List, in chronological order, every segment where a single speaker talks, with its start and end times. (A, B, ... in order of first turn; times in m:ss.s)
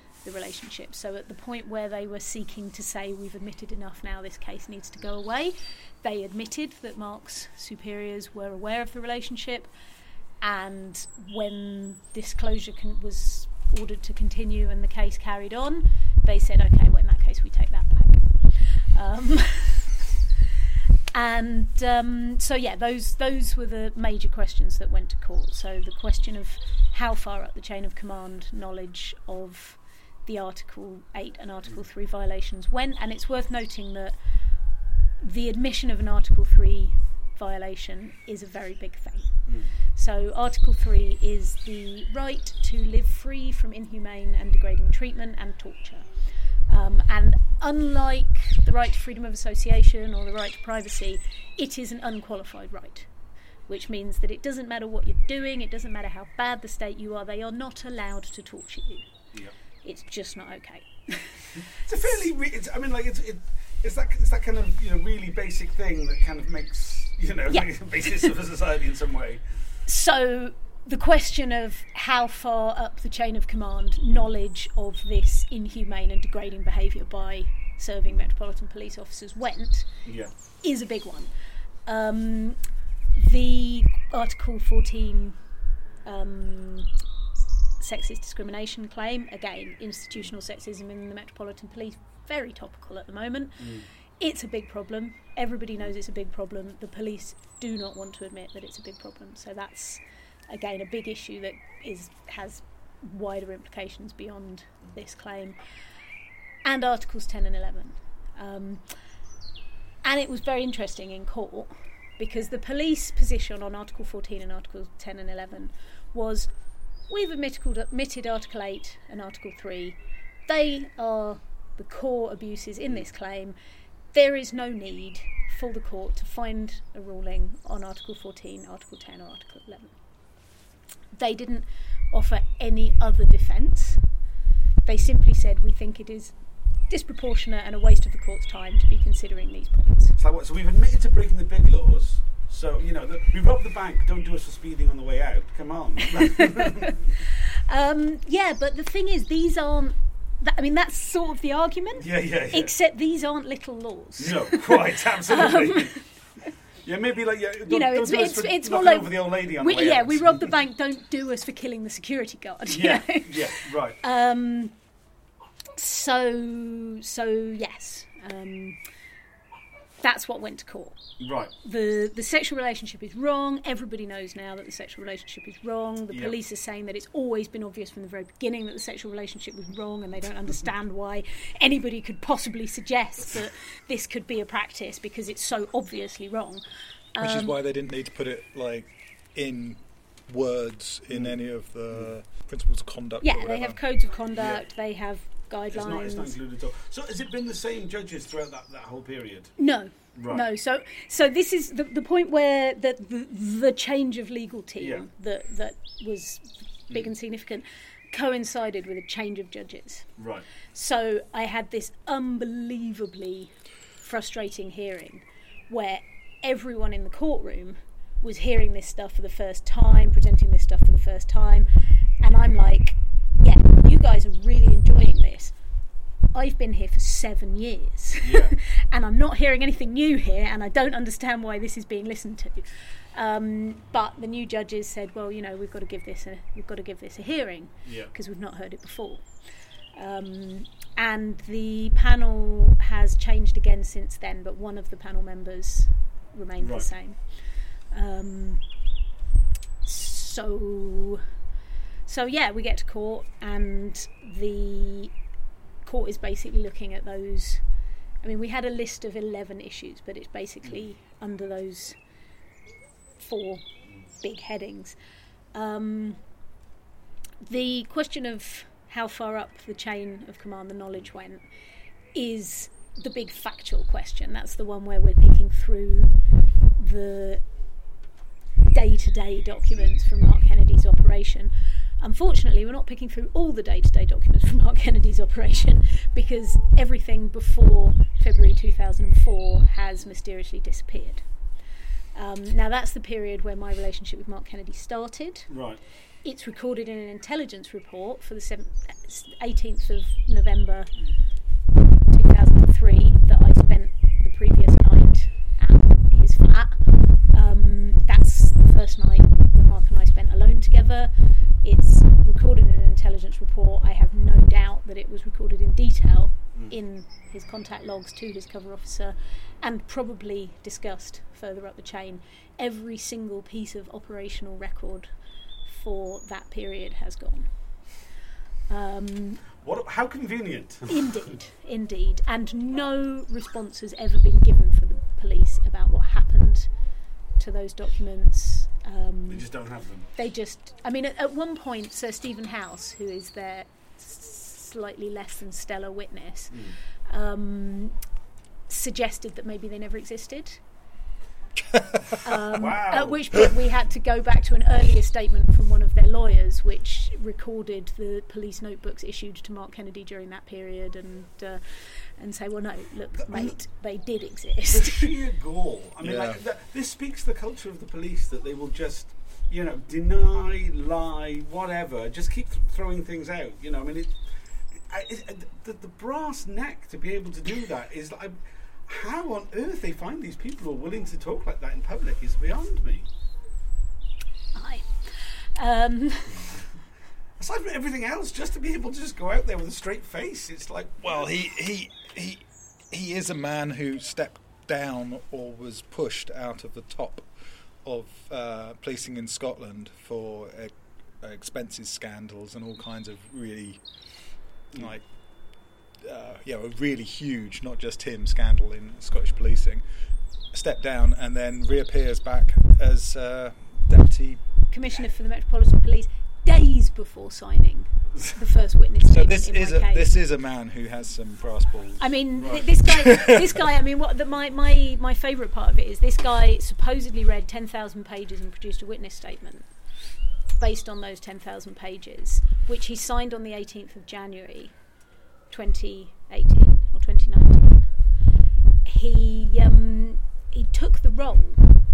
0:00.2-0:09.7 A
0:10.4-0:20.0 A
0:21.1-0:34.2 A
0:35.2-0:39.3 A
0:39.5-0:39.7 B
0:39.9-0:46.1 A
0:46.7-0:53.1 A
0:53.7-0:59.1 A
0:59.8-1:02.1 A
1:01.7-1:09.4 B
1:07.5-1:08.3 A
1:09.9-1:19.9 A
1:20.0-1:20.3 B
1:20.6-1:21.3 A
1:21.8-1:22.6 A
1:23.2-1:25.4 A
1:26.0-1:26.9 A
1:27.8-1:45.6 A
1:33.6-1:33.9 B
1:46.6-1:48.9 A
1:50.0-1:56.5 A
1:57.1-2:03.6 A
2:04.1-2:09.9 A
2:11.1-2:14.0 A
2:14.8-2:16.3 A
2:16.9-2:20.1 A
2:20.2-2:27.1 B
2:26.1-2:36.0 A
2:32.0-2:32.7 B
2:34.2-2:36.0 B
2:36.8-2:40.5 B
2:37.7-2:44.7 A
2:42.7-2:44.0 B
2:45.8-2:48.8 A
2:50.0-2:51.0 A
2:51.2-2:51.5 B
2:51.6-3:07.5 A
2:56.1-2:56.3 B
3:07.2-3:13.8 C
3:11.1-3:11.4 B
3:13.2-3:16.3 A
3:14.3-3:14.6 B
3:15.7-3:19.6 B
3:19.6-3:30.1 A
3:20.1-3:20.4 B
3:24.8-3:25.1 B
3:30.2-3:30.5 B
3:30.7-3:41.7 A
3:42.2-3:45.5 A
3:46.3-3:59.3 A
3:48.2-3:48.5 B
3:57.8-3:58.1 B
3:59.9-4:07.2 A
4:06.6-4:06.9 B
4:07.9-4:08.6 A
4:09.8-4:11.2 A
4:12.0-4:15.1 A
4:15.8-4:17.6 A
4:18.2-4:22.0 A
4:23.2-4:23.7 A
4:24.2-4:25.0 A
4:25.5-4:26.2 A
4:27.4-4:31.4 A
4:32.1-4:36.1 A
4:36.8-4:37.4 A
4:38.7-4:51.2 A
4:52.1-4:55.5 A
4:55.5-4:55.8 B
4:56.2-5:00.9 A
5:02.1-5:25.1 A
5:25.6-5:27.5 A
5:28.7-5:29.4 A
5:29.6-5:31.2 B
5:30.9-5:36.7 A
5:37.4-5:39.4 A
5:39.3-5:40.1 B
5:40.2-5:48.0 A
5:48.7-5:50.6 A
5:52.2-6:05.1 A
5:52.5-5:53.4 B
6:03.2-6:03.5 B
6:04.7-6:14.2 B
6:06.0-6:06.4 C
6:14.7-6:23.1 B
6:24.5-6:26.6 A
6:27.4-6:31.3 B
6:31.0-6:37.3 C
6:37.8-6:45.1 C
6:46.0-6:49.8 C
6:50.5-6:54.4 C
6:54.7-7:00.1 A
6:59.1-7:02.0 C
7:02.0-7:09.7 A
7:02.3-7:02.7 B
7:02.9-7:03.3 C
7:10.6-7:14.7 A
7:15.5-7:17.9 A
7:18.8-7:21.7 A